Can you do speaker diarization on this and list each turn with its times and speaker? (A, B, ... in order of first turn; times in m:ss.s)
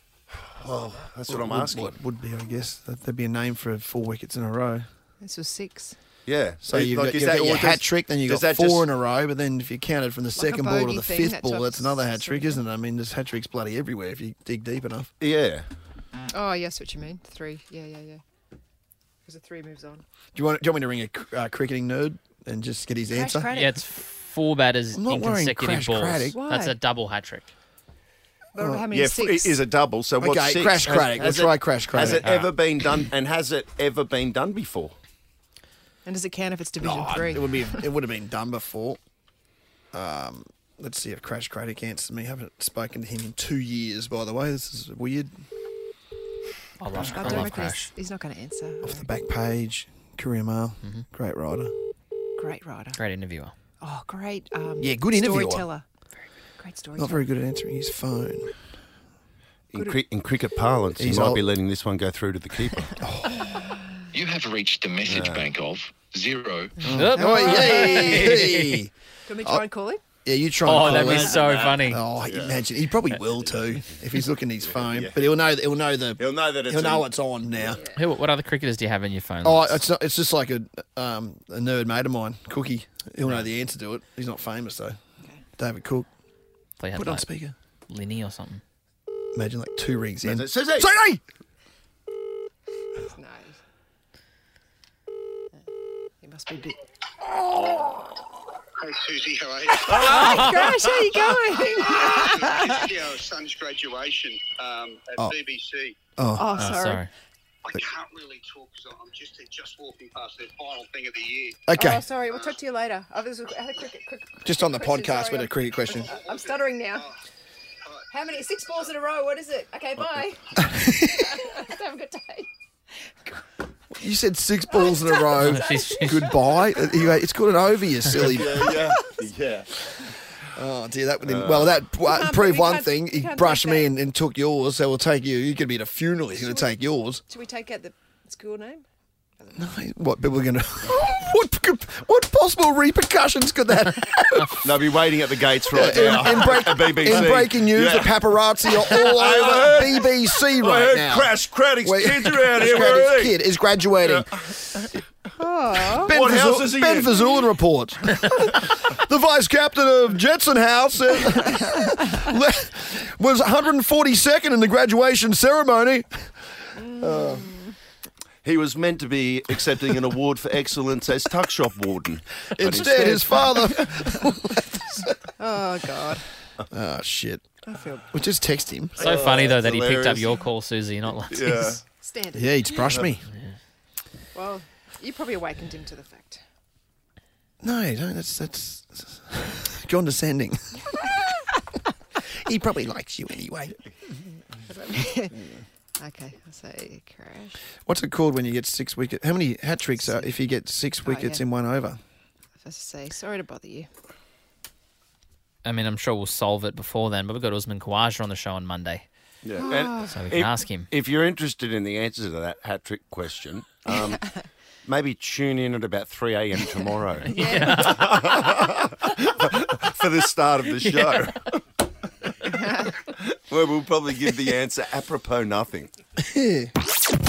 0:00.3-0:01.9 A
0:01.3-0:04.8 B
0:05.2-0:06.0 C
0:06.2-0:08.9 A
0:06.6-0:15.1 B
0:10.4-0:12.5 C
0:15.2-0:15.6 A
0:16.3-0:18.2 C
0:19.2-0:20.0 C
0:20.3-0:23.5 B
0:23.1-0:23.8 C
0:23.5-0:27.5 D
0:24.9-0:26.4 B
0:26.3-0:26.8 C
0:28.5-0:29.6 C
0:28.6-0:28.8 B
0:28.9-0:34.9 A
0:30.2-0:32.2 B
0:32.1-0:32.5 D
0:36.0-0:37.9 C
0:36.8-0:39.0 B
0:39.9-0:45.4 B
0:46.8-0:47.9 D
0:47.0-0:49.1 C
0:47.0-0:47.5 B
0:48.8-0:51.7 B
0:52.4-0:53.0 C
0:52.9-0:53.5 D
0:53.8-0:55.9 C
0:54.8-0:55.7 B
0:56.6-0:57.3 C
0:57.0-0:58.5 B
0:59.7-1:03.0 A
0:59.7-1:00.0 C
1:01.0-1:01.4 B
1:03.0-1:03.6 B
1:04.1-1:06.8 E
1:05.0-1:05.5 A
1:06.8-1:08.8 D
1:06.8-1:08.9 B
1:07.1-1:08.3 C
1:09.2-1:10.0 C
1:10.2-1:17.8 B
1:10.6-1:12.0 D
1:10.8-1:12.6 A
1:14.6-1:15.3 A
1:16.2-1:17.1 A
1:17.7-1:18.0 C
1:17.9-1:19.8 D
1:19.4-1:25.0 B
1:25.6-1:26.1 B
1:26.8-1:27.3 D
1:26.9-1:27.5 B
1:27.9-1:28.6 D
1:29.3-1:31.2 B
1:30.2-1:30.9 A
1:33.1-1:33.6 C
1:36.2-1:36.8 C
1:38.8-1:40.3 F
1:39.9-1:42.8 C
1:40.1-1:41.2 A
1:41.8-1:46.0 F
1:46.2-1:46.6 B
1:46.4-1:47.1 C
1:46.6-1:47.1 D
1:47.6-1:51.6 F
1:51.7-1:52.0 B
1:51.7-1:57.1 C
1:52.3-1:52.5 F
1:54.4-1:56.2 B
1:56.0-1:57.1 F
1:58.1-2:02.5 C
2:00.6-2:01.2 B
2:03.0-2:03.4 C
2:03.9-2:08.8 B
2:04.7-2:06.5 C
2:05.4-2:06.3 D
2:08.2-2:09.9 A
2:08.5-2:08.8 C
2:10.5-2:17.2 B
2:11.2-2:11.8 A
2:12.0-2:13.9 C
2:16.3-2:16.8 C
2:17.3-2:18.8 C
2:19.5-2:24.8 B
2:24.6-2:28.2 A
2:25.7-2:34.5 B
2:28.8-2:33.4 A
2:34.0-2:35.0 A
2:35.4-2:36.1 C
2:35.8-2:47.5 B
2:35.9-2:37.4 A
2:46.7-2:47.7 C
2:48.4-2:53.7 A
2:52.5-2:55.1 B
2:52.6-2:53.3 D
2:55.4-2:56.2 C
2:56.7-2:57.5 B
2:57.6-2:58.1 C
2:58.1-2:59.2 B
2:59.0-3:00.3 A
2:59.0-3:01.7 D
3:01.3-3:01.8 A
3:02.0-3:02.8 C
3:02.3-3:03.2 B
3:04.3-3:06.4 C
3:07.6-3:11.2 B
3:12.3-3:13.8 B
3:14.6-3:15.4 C
3:16.0-3:17.6 C
3:17.8-3:22.0 B
3:20.0-3:20.3 C
3:21.0-3:21.4 C
3:22.6-3:23.9 C
3:25.6-3:29.0 D
3:29.4-3:41.6 A
3:29.6-3:30.2 C
3:30.1-3:30.9 D
3:37.2-3:38.2 C
3:37.3-3:38.1 D
3:42.3-3:45.9 A
3:42.5-3:42.9 C
3:46.2-3:46.7 B